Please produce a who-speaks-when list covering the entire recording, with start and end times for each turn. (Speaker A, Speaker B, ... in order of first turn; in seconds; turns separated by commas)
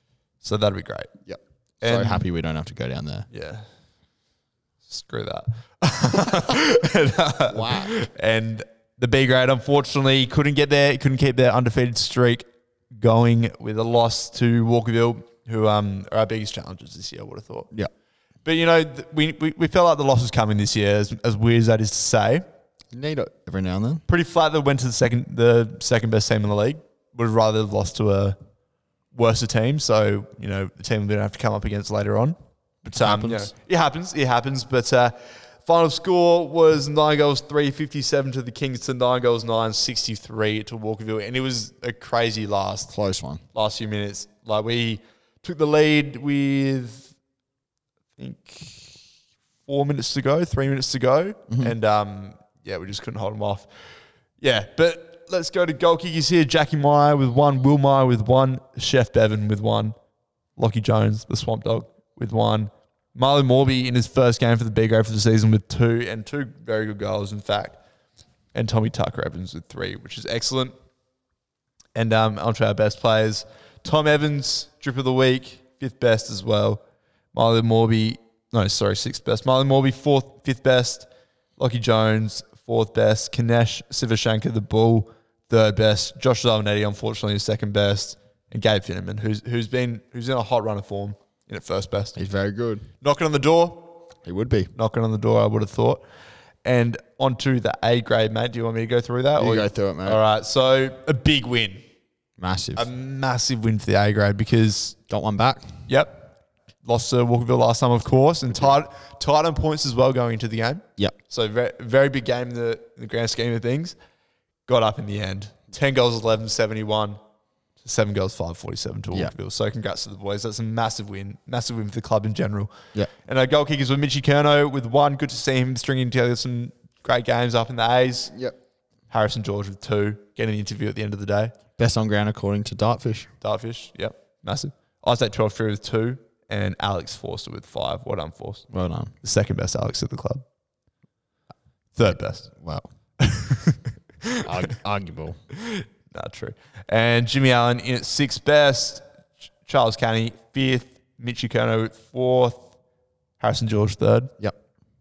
Speaker A: 0.4-1.1, Speaker B: 1.3-3.3, Speaker A: 1.8-2.2, Speaker A: 3.3-3.7, Speaker A: 4.9-17.7, Speaker B: 7.5-8.0, Speaker A: 18.4-22.4, Speaker B: 22.9-24.0, Speaker A: 24.1-28.4, Speaker A: 29.1-32.4, Speaker B: 32.9-33.5, Speaker A: 32.9-42.9, Speaker B: 42.9-43.4, Speaker A: 43.5-47.1, Speaker A: 48.2-49.1, Speaker A: 49.7-53.7, Speaker B: 51.5-51.8, Speaker A: 54.4-60.0, Speaker A: 60.6-67.8, Speaker A: 68.5-70.8, Speaker A: 72.0-76.8, Speaker A: 77.3-92.2, Speaker B: 92.2-92.9, Speaker A: 93.0-94.1, Speaker B: 94.2-94.7, Speaker A: 94.8-96.0, Speaker A: 96.6-101.8, Speaker B: 99.4-100.2, Speaker B: 102.4-102.9, Speaker A: 102.8-105.0, Speaker B: 105.1-105.9, Speaker A: 105.9-106.3, Speaker A: 106.8-114.0, Speaker A: 114.7-117.2, Speaker A: 117.8-128.3, Speaker B: 128.3-128.6, Speaker A: 129.1-131.6, Speaker B: 131.8-133.3, Speaker A: 133.4-138.7, Speaker B: 138.7-139.1, Speaker A: 139.2-140.4, Speaker A: 141.9-142.5, Speaker B: 142.5-142.9, Speaker A: 143.2-144.5, Speaker B: 144.4-145.4, Speaker A: 145.6-149.1, Speaker A: 149.6-152.7, Speaker A: 153.4-154.3